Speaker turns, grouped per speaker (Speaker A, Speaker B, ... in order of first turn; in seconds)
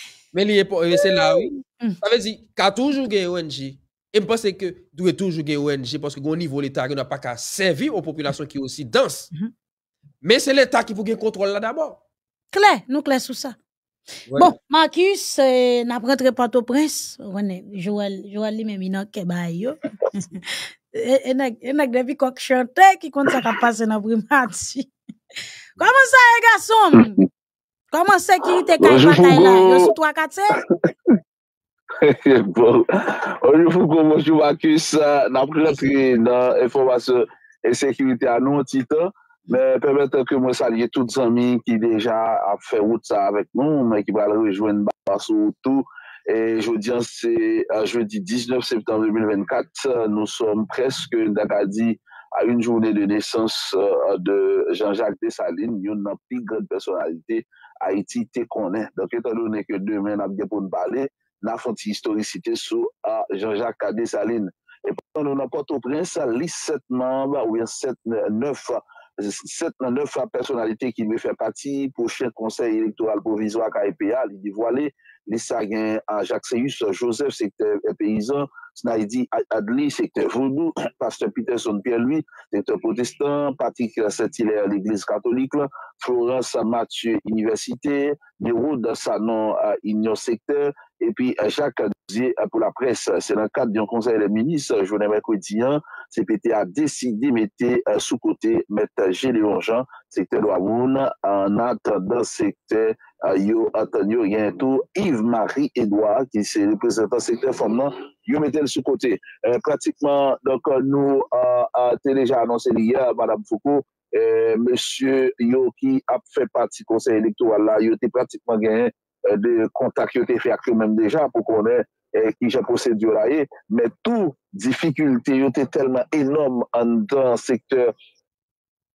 Speaker A: 0.3-9.3, 10.2-12.0, 14.3-14.5
Speaker B: 1.1-2.0, 12.5-13.6, 14.3-24.9, 25.8-27.2, 27.9-30.6
Speaker C: 28.8-29.9, 32.0-127.9